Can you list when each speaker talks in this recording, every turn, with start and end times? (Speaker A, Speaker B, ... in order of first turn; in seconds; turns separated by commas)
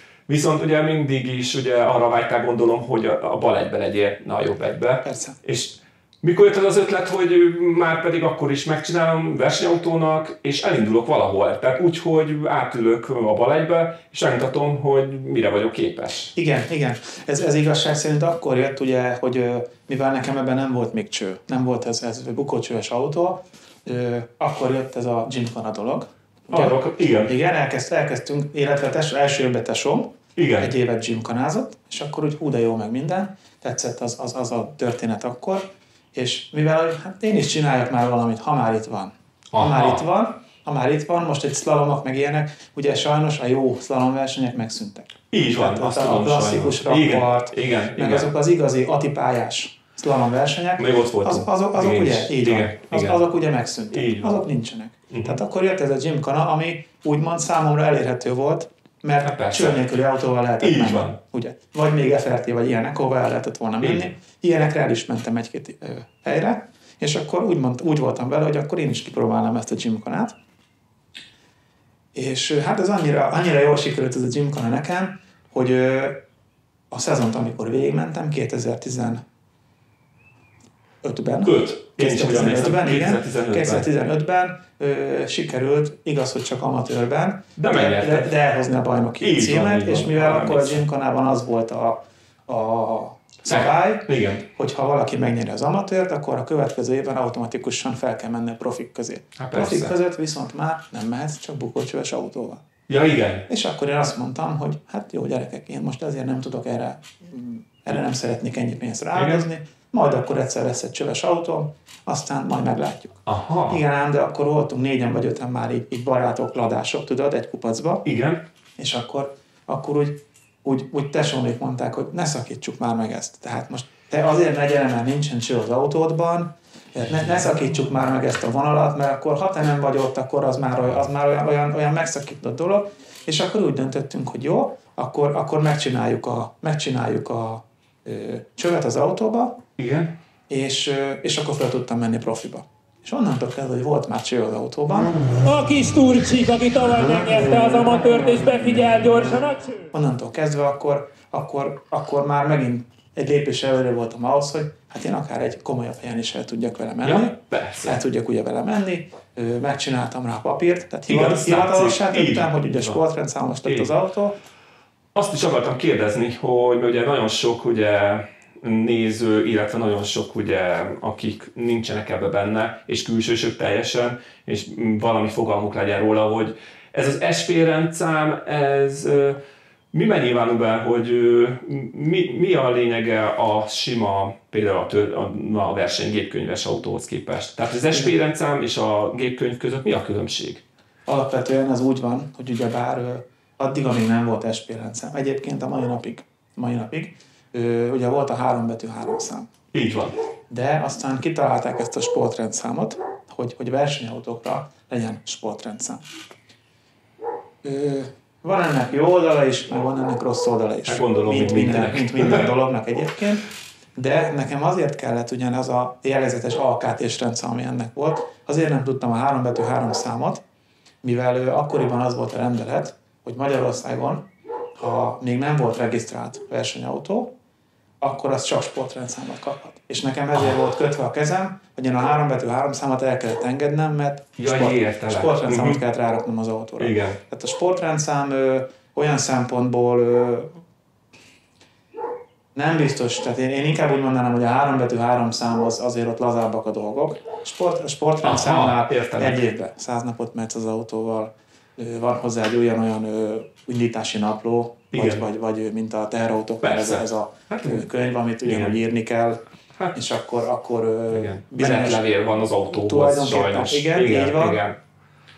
Speaker A: 0.3-16.3, Speaker B: 5.0-5.4, Speaker B: 16.3-70.3, Speaker A: 26.5-27.3, Speaker A: 30.4-30.7, Speaker A: 39.5-40.0, Speaker A: 45.3-48.3, Speaker A: 50.8-53.2, Speaker A: 53.9-54.5, Speaker A: 55.1-55.4, Speaker A: 59.2-59.8, Speaker A: 60.6-61.2, Speaker A: 63.8-64.1, Speaker B: 72.1-76.2, Speaker B: 76.9-79.2, Speaker B: 81.0-102.7, Speaker A: 81.4-83.9, Speaker A: 87.6-88.3, Speaker A: 89.2-90.8, Speaker A: 93.4-94.5, Speaker A: 99.4-99.9, Speaker A: 102.9-103.5, Speaker B: 103.5-118.0, Speaker A: 109.1-109.4, Speaker A: 113.2-113.8, Speaker A: 118.0-118.4, Speaker B: 118.8-139.6, Speaker A: 139.8-140.2, Speaker B: 140.5-145.2, Speaker C: 145.4-149.8, Speaker B: 147.1-149.1, Speaker B: 149.9-164.4, Speaker A: 157.0-158.0, Speaker A: 161.1-163.0, Speaker A: 165.1-179.4, Speaker A: 179.9-190.6, Speaker B: 191.1-199.5, Speaker A: 199.7-200.2, Speaker B: 200.5-206.0, Speaker B: 207.6-220.4, Speaker A: 210.8-212.5, Speaker B: 221.0-227.3, Speaker B: 228.0-240.6, Speaker A: 230.3-230.6, Speaker A: 234.4-235.8, Speaker A: 236.8-237.2, Speaker B: 242.5-259.4, Speaker A: 248.2-249.4, Speaker A: 254.9-255.2, Speaker A: 256.6-257.9, Speaker A: 258.4-258.8, Speaker B: 259.9-262.1, Speaker A: 261.1-264.8, Speaker B: 262.7-264.6